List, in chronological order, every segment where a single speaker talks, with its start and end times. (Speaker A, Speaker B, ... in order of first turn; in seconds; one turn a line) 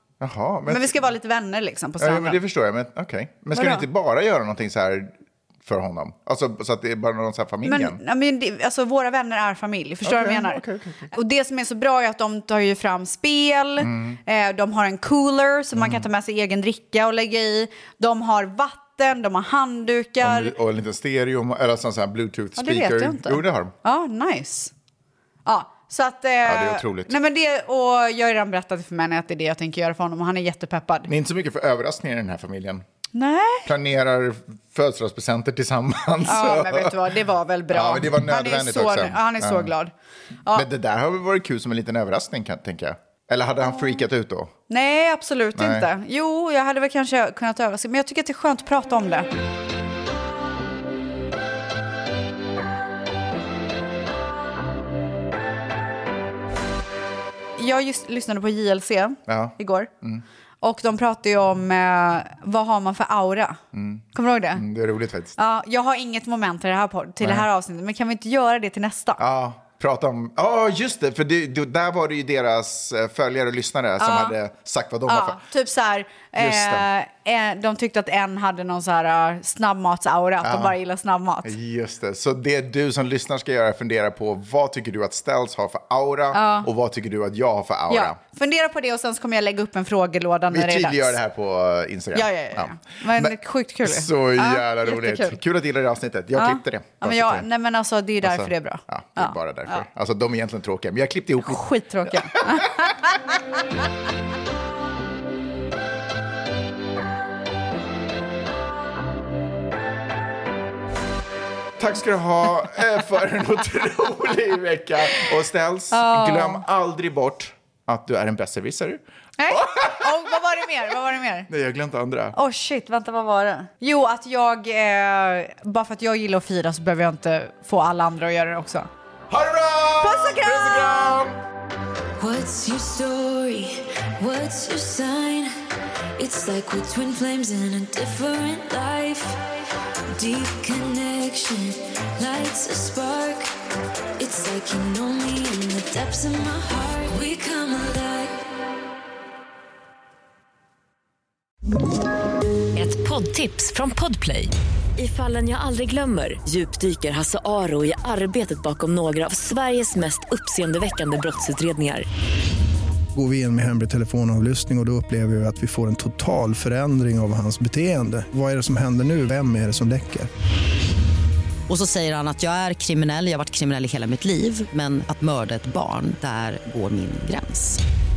Speaker A: 0.2-1.0
Speaker B: 0.7-2.4
Speaker A: 2.0-5.1
Speaker B: 3.5-3.9
Speaker A: 5.6-8.0
Speaker B: 7.6-20.5
Speaker A: 10.0-11.1
Speaker A: 13.8-14.2
Speaker A: 15.7-16.0
Speaker A: 20.2-23.7
Speaker B: 22.6-24.7
Speaker B: 25.4-31.1
Speaker A: 26.4-27.1
Speaker A: 31.1-32.8
Speaker B: 33.1-33.7
Speaker A: 33.6-36.9
Speaker B: 36.2-39.9
Speaker A: 37.7-39.7
Speaker A: 40.5-44.5
Speaker B: 44.7-49.3
Speaker A: 45.6-45.9
Speaker B: 57.6-59.9
Speaker A: 59.3-60.2
Speaker B: 60.6-63.6
Speaker A: 63.7-65.3
Speaker B: 64.1-64.6
Speaker B: 65.4-69.2
Speaker A: 67.2-67.5
Speaker A: 69.2-75.4
Speaker B: 74.0-74.3
Speaker B: 75.1-81.5
Speaker A: 76.3-76.8
Speaker A: 80.4-80.7
Speaker A: 81.4-88.2
Speaker B: 86.3-86.7
Speaker B: 87.9-91.2
Speaker A: 90.5-97.5
Speaker B: 92.1-95.4
Speaker B: 96.3-99.8
Speaker A: 98.2-102.9
Speaker B: 101.4-103.2
Speaker A: 111.8-120.4
Speaker B: 115.9-116.6
Speaker B: 119.4-121.5
Speaker A: 121.5-122.3
Speaker B: 122.3-128.9
Speaker A: 129.3-131.4
Speaker B: 130.0-131.2
Speaker C: 132.2-135.5
Speaker C: 136.2-139.4
Speaker C: 140.1-143.5
Speaker C: 144.2-148.4
Speaker D: 152.7-162.1
Speaker E: 163.1-170.3
Speaker F: 171.7-177.8